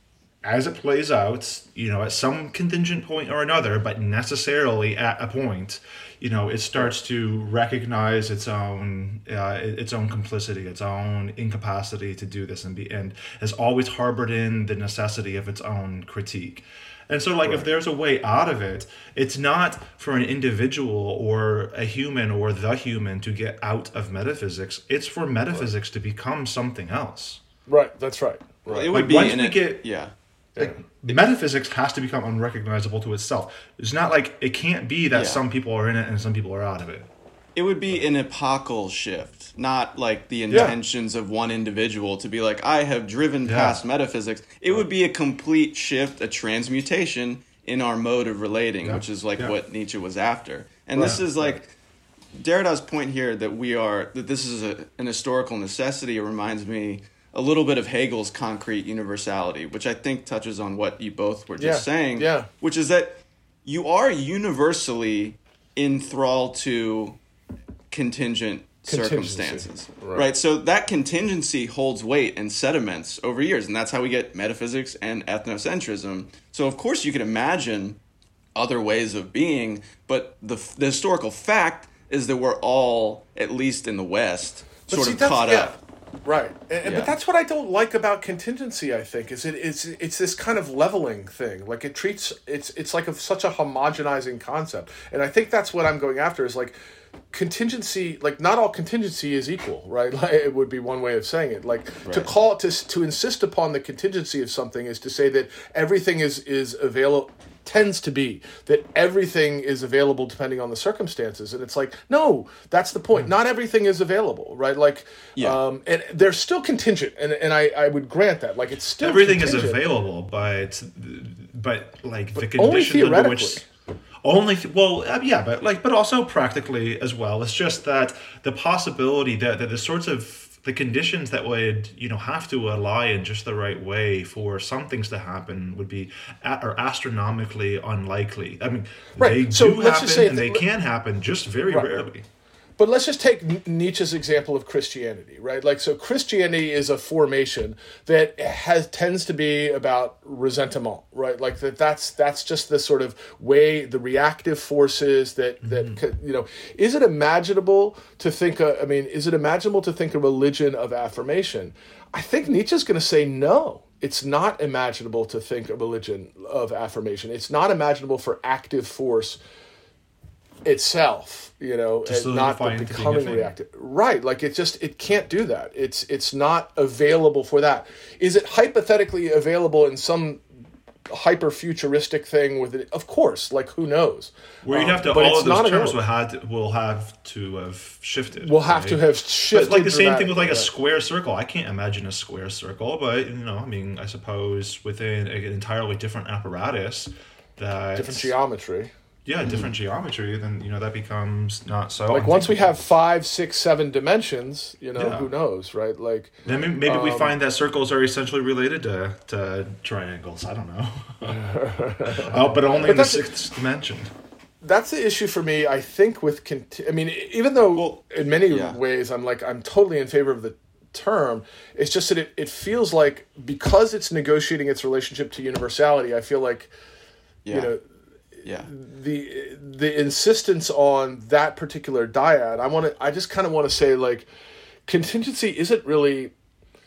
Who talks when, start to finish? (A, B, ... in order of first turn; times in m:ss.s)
0:00.4-0:27.4 A
0:27.7-0:28.9 B
0:28.7-0:30.1 C
0:28.9-0:29.8 A
0:30.6-0:37.1 A
0:35.1-0:35.4 C
0:37.6-0:51.7 C
0:43.4-0:43.8 A
0:48.8-0:49.5 A
0:51.0-0:51.6 B
0:52.3-1:07.2 C
1:01.6-1:02.5 B
1:07.9-1:18.0 C
1:08.9-1:10.2 B
1:18.6-1:25.8 C
1:24.9-1:36.8 B
1:26.8-1:27.1 C
1:37.3-1:59.8 B
1:55.4-1:55.6 C
1:59.0-2:03.6 A
2:02.4-2:03.7 B
2:04.2-2:22.2 A
2:19.2-2:20.6 B
2:21.7-2:22.0 B
2:22.8-2:49.4 B
2:35.6-2:36.0 A
2:50.6-3:00.4 B
2:52.1-2:53.5 A
3:01.1-3:06.0 B
3:04.6-3:18.3 A
3:08.4-3:10.7 B
3:18.0-3:18.9 B
3:19.3-3:22.6 A
3:19.4-3:19.7 C
3:22.1-3:27.4 B
3:25.0-3:25.3 A
3:26.5-3:31.4 A
3:31.2-3:33.3 B
3:32.1-3:34.1 A
3:34.6-3:46.7 B
3:37.7-3:38.8 C
3:47.4-3:47.7 C
3:47.5-3:47.8 B
3:48.4-3:54.3 B
3:54.9-3:56.3 B